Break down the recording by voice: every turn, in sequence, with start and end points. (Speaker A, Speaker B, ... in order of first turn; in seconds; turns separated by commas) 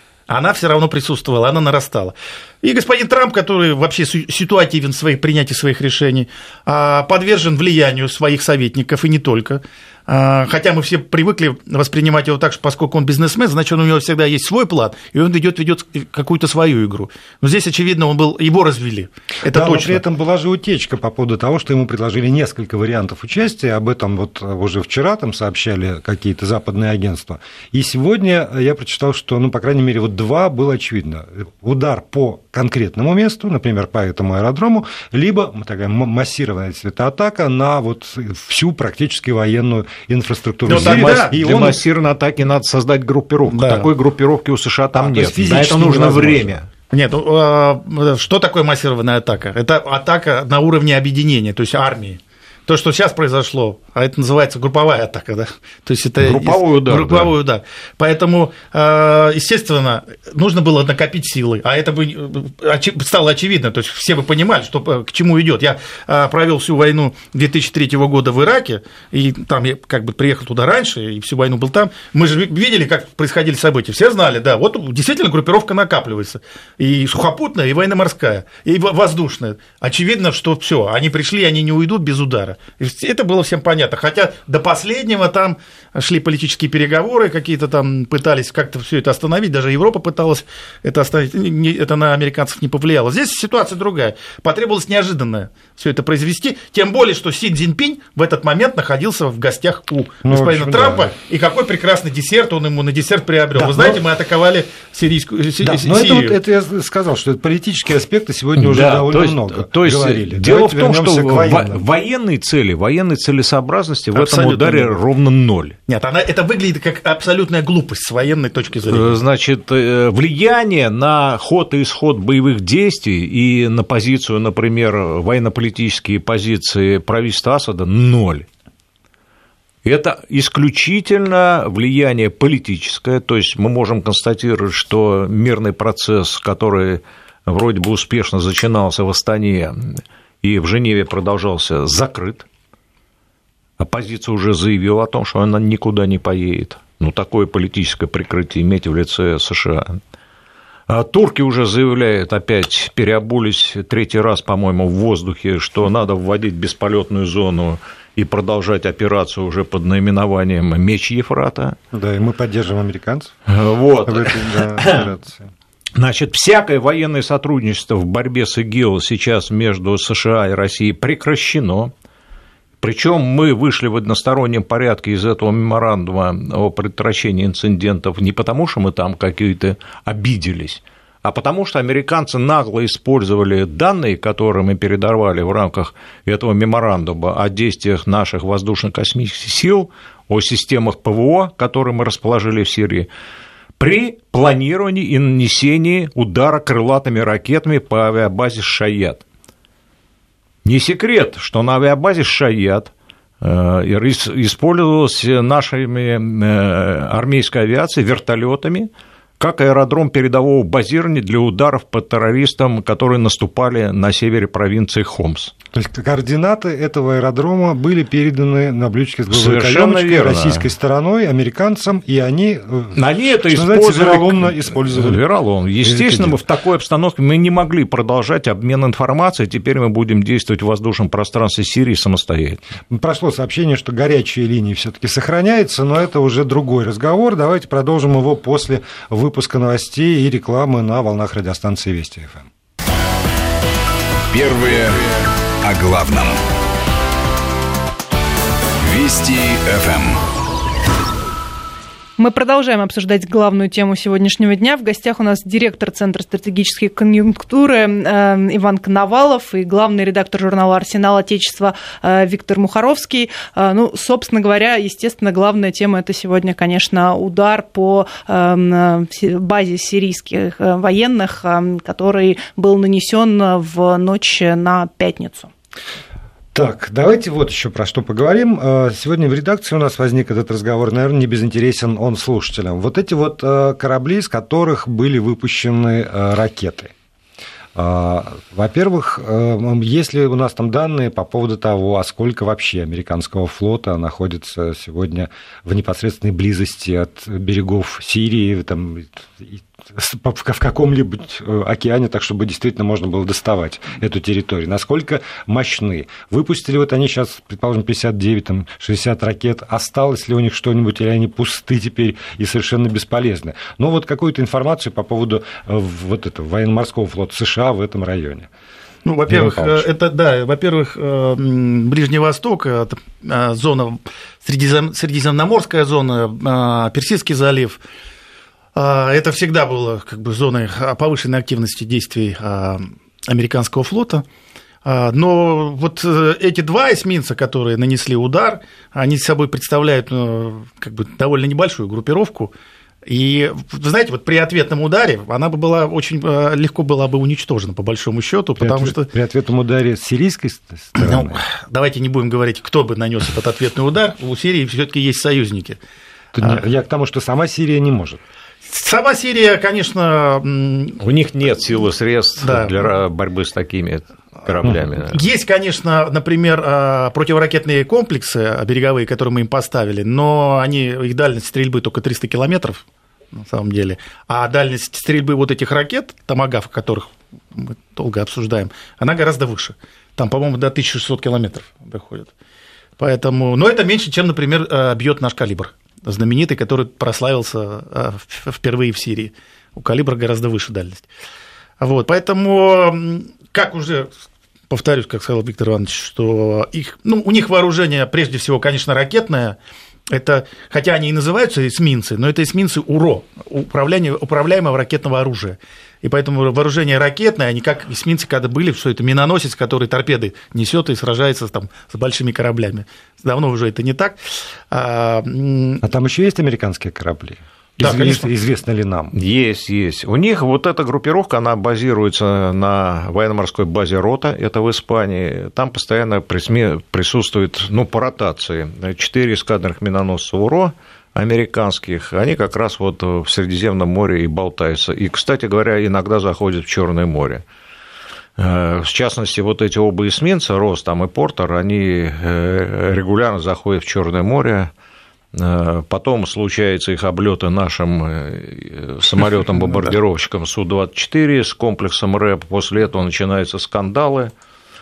Speaker A: 0.3-20.0, Speaker B: 19.5-41.8, Speaker A: 40.6-41.3, Speaker C: 40.6-46.7, Speaker A: 43.5-43.9, Speaker B: 45.0-46.6, Speaker A: 46.9-106.4, Speaker C: 56.2-57.3, Speaker B: 100.2-101.1, Speaker B: 103.5-104.0, Speaker B: 105.6-111.8, Speaker C: 108.6-115.8, Speaker A: 114.1-115.0, Speaker A: 115.9-119.2, Speaker C: 118.9-128.5, Speaker C: 129.8-142.5, Speaker C: 143.8-150.0, Speaker C: 150.9-161.8, Speaker B: 161.9-163.3, Speaker C: 163.5-165.1, Speaker B: 164.1-165.5, Speaker C: 166.0-171.9, Speaker C: 172.8-193.1, Speaker C: 193.8-199.2, Speaker C: 200.6-215.5, Speaker B: 215.7-225.2, Speaker C: 219.3-220.7, Speaker C: 222.9-232.6, Speaker B: 225.8-226.4, Speaker B: 232.9-242.5, Speaker D: 244.3-246.4, Speaker D: 248.8-250.2, Speaker E: 252.2-275.5, Speaker B: 276.6-286.9, Speaker B: 287.8-318.5, Speaker A: 319.1-327.8, Speaker B: 319.3-319.9, Speaker A: 328.8-334.2, Speaker A: 334.9-342.5, Speaker A: 343.1-349.1, Speaker B: 348.6-351.4, Speaker A: 351.0-355.8, Speaker B: 356.4-358.2, Speaker A: 358.7-361.0, Speaker C: 361.0-365.2, Speaker A: 362.4-362.8, Speaker A: 365.1-382.3, Speaker A: 383.0-391.1, Speaker A: 391.8-394.1, Speaker A: 394.7-399.6, Speaker A: 400.1-415.8, Speaker B: 415.8-419.1, Speaker A: 417.8-418.3, Speaker C: 419.1-437.4, Speaker C: 438.4-444.7, Speaker C: 445.3-454.3